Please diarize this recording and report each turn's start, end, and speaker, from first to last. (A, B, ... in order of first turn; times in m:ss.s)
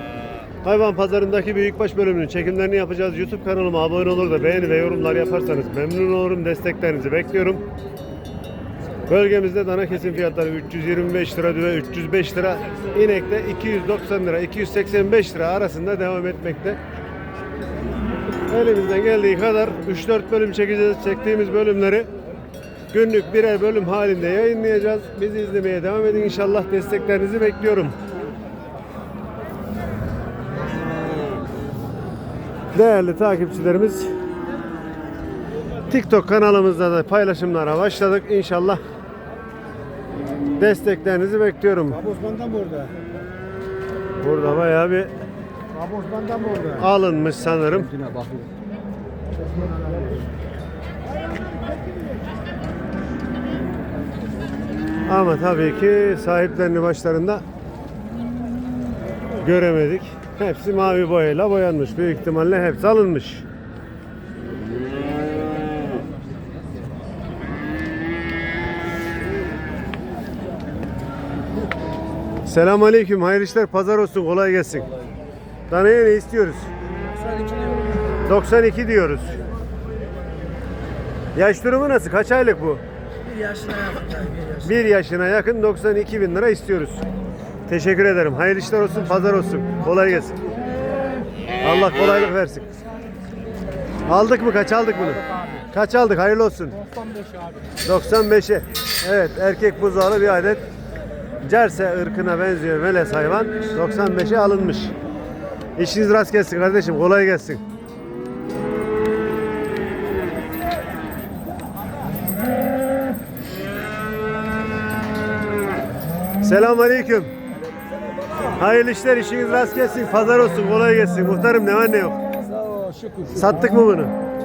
0:00.6-0:07.6 A
0:09.1-0:16.8 A
0:18.5-0:22.1 A
0:22.9-0:28.0 A
0:32.7-0:34.1 A
0:35.9-0:38.8 A
0:40.6-0:42.0 A
0:42.1-0:42.9 B
0:44.2-0:45.1 A
0:45.8-0:46.8 B
0:46.8-0:47.9 A
0:47.9-0:48.4 B
0:55.1-0:57.4 A
0:59.4-1:03.4 A
1:12.4-1:14.8 A
1:15.7-1:16.7 A
1:17.2-1:17.8 B
1:18.2-1:19.4 A
1:21.3-1:22.8 A
1:23.5-1:23.9 B
1:24.6-1:27.0 A
1:27.7-1:30.4 A
1:31.6-1:32.7 A
1:34.0-1:36.8 A
1:37.8-1:40.6 A
1:41.4-1:44.9 A
1:45.8-1:47.6 A
1:56.4-1:57.3 A
1:58.0-1:58.6 B
1:58.6-2:02.2 A
2:02.5-2:03.6 B
2:03.3-2:04.1 A